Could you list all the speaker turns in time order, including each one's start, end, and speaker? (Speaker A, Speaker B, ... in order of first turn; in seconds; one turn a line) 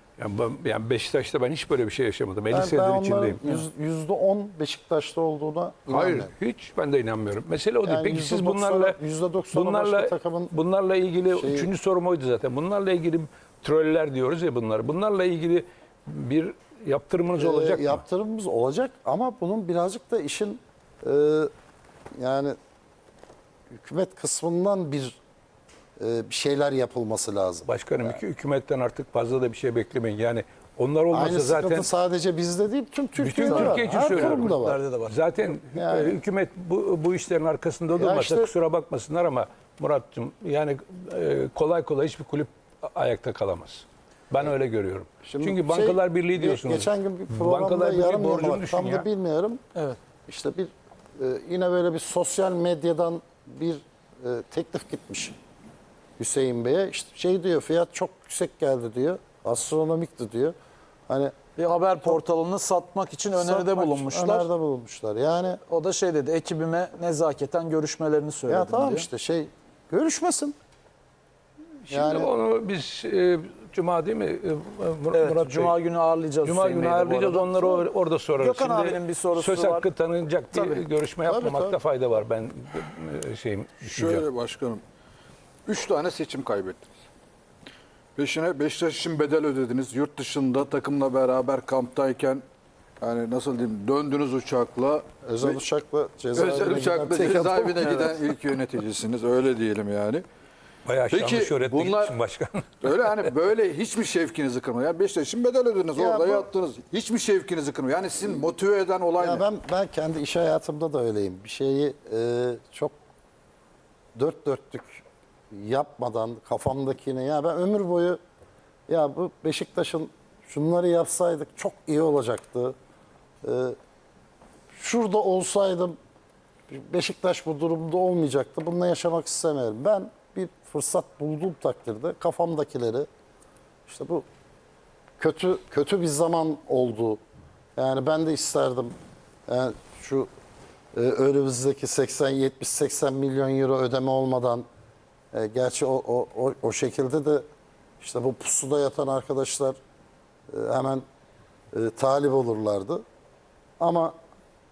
Speaker A: 0.2-3.6
Speaker B: 2.5-6.3
Speaker A: 5.9-9.0
Speaker B: 7.8-10.5
Speaker A: 9.5-18.0
Speaker B: 11.3-11.7
Speaker B: 17.4-21.5
Speaker B: 22.1-22.6
Speaker B: 23.7-25.2
Speaker B: 26.0-28.1
Speaker A: 27.6-31.9
Speaker B: 31.1-34.8
Speaker A: 33.2-49.1
Speaker C: 33.4-35.3
Speaker B: 35.7-36.2
Speaker B: 37.9-38.5
Speaker B: 45.2-49.6
Speaker B: 50.3-55.4
Speaker B: 56.2-60.5
Speaker B: 61.1-61.3
Speaker C: 61.6-64.5
Speaker B: 63.3-65.6
Speaker C: 65.7-69.0
Speaker B: 68.5-70.5
Speaker A: 71.8-75.8
Speaker B: 71.9-72.3
Speaker C: 75.1-77.9
Speaker A: 76.4-84.3
Speaker C: 78.4-79.9
Speaker C: 80.5-80.8
Speaker B: 81.2-81.8
Speaker D: 83.8-84.8
Speaker D: 85.7-86.8
Speaker D: 88.2-92.4
Speaker D: 93.0-95.6
Speaker B: 95.2-98.2
Speaker D: 96.3-100.2
Speaker A: 100.8-102.9
Speaker D: 101.1-102.2
Speaker D: 102.8-109.5
Speaker B: 105.9-106.5
Speaker B: 109.2-113.0
Speaker B: 114.2-118.2
Speaker B: 118.9-122.8
Speaker B: 123.4-123.8
Speaker B: 124.7-126.0
Speaker B: 126.7-133.1
Speaker B: 133.9-134.2
Speaker B: 135.2-137.2
Speaker B: 137.8-138.9
Speaker B: 139.5-140.3
Speaker B: 140.9-144.6
Speaker B: 145.3-147.4
Speaker B: 148.0-149.8
Speaker B: 150.5-151.0
Speaker B: 151.7-153.0
Speaker B: 153.8-154.1